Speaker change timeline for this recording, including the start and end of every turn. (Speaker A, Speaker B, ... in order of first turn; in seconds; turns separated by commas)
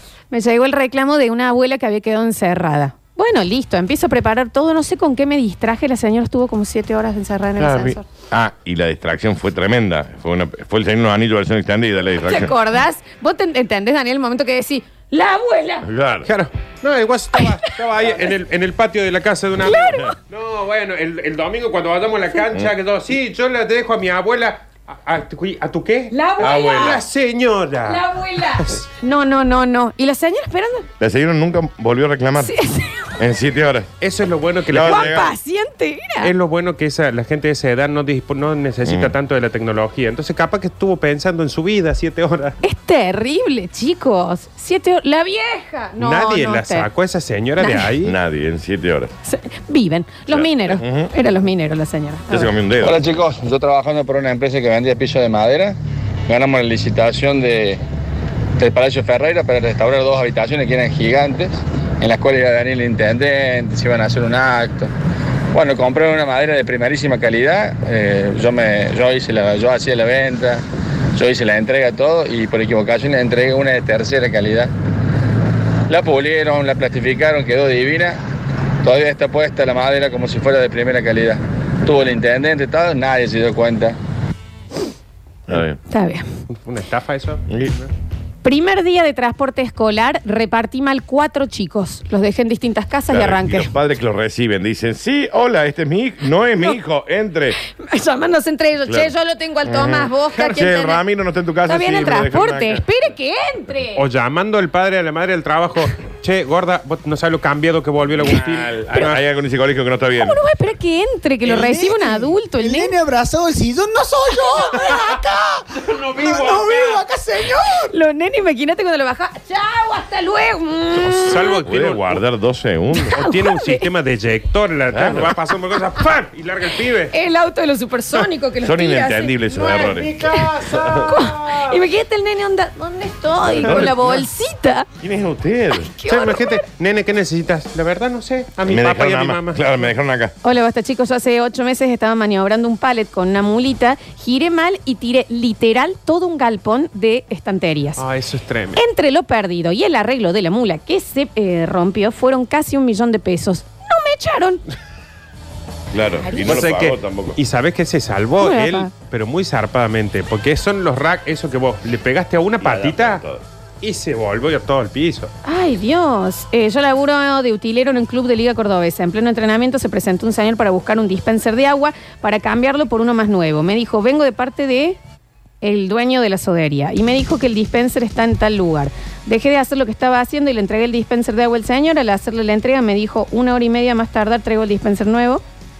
Speaker A: 0.3-8.0, Speaker B: 7.6-12.6, Speaker A: 12.2-15.9, Speaker B: 15.8-16.3, Speaker C: 16.2-28.8, Speaker A: 17.4-17.7, Speaker A: 19.6-20.1, Speaker A: 26.1-27.0, Speaker A: 27.8-30.9, Speaker B: 31.0-32.5, Speaker A: 32.4-33.1, Speaker B: 33.2-33.9, Speaker C: 34.0-35.2, Speaker B: 34.7-35.3, Speaker A: 34.8-36.3, Speaker C: 36.2-42.6, Speaker B: 38.8-39.1, Speaker A: 42.6-46.9, Speaker C: 46.0-48.1, Speaker A: 47.6-47.9, Speaker B: 48.0-49.1, Speaker A: 49.2-52.5, Speaker B: 50.3-51.1, Speaker B: 52.3-53.0, Speaker D: 52.8-57.8, Speaker D: 58.6-64.9, Speaker D: 65.5-70.6, Speaker D: 71.1-74.7, Speaker D: 75.9-78.2, Speaker D: 78.8-84.0, Speaker B: 85.5-85.8, Speaker A: 85.9-86.2, Speaker C: 86.5-87.9, Speaker B: 87.5-87.7, Speaker A: 88.4-93.7, Speaker B: 93.1-97.6, Speaker A: 97.7-101.0, Speaker B: 98.8-99.1, Speaker B: 99.6-102.8, Speaker A: 101.7-104.0, Speaker C: 103.9-109.2, Speaker B: 108.2-110.4, Speaker A: 110.2-112.9, Speaker E: 111.4-117.9, Speaker C: 115.8-117.0, Speaker A: 117.9-121.6, Speaker C: 121.0-122.2, Speaker B: 121.7-123.2, Speaker A: 122.9-123.9, Speaker C: 123.1-127.1, Speaker B: 124.9-125.3, Speaker A: 127.1-134.9, Speaker B: 128.6-130.1, Speaker C: 129.5-131.8, Speaker B: 130.7-131.1, Speaker B: 133.4-134.2, Speaker C: 133.6-134.1, Speaker B: 135.0-135.9, Speaker A: 135.7-136.7, Speaker C: 136.1-139.9, Speaker B: 138.7-140.3, Speaker A: 140.4-148.0, Speaker C: 148.0-148.8, Speaker A: 148.8-154.6, Speaker B: 155.9-157.4, Speaker A: 156.2-156.6, Speaker C: 156.4-163.2, Speaker A: 158.4-158.9, Speaker B: 162.6-163.4, Speaker C: 163.8-165.3, Speaker A: 165.4-175.0, Speaker A: 175.6-185.4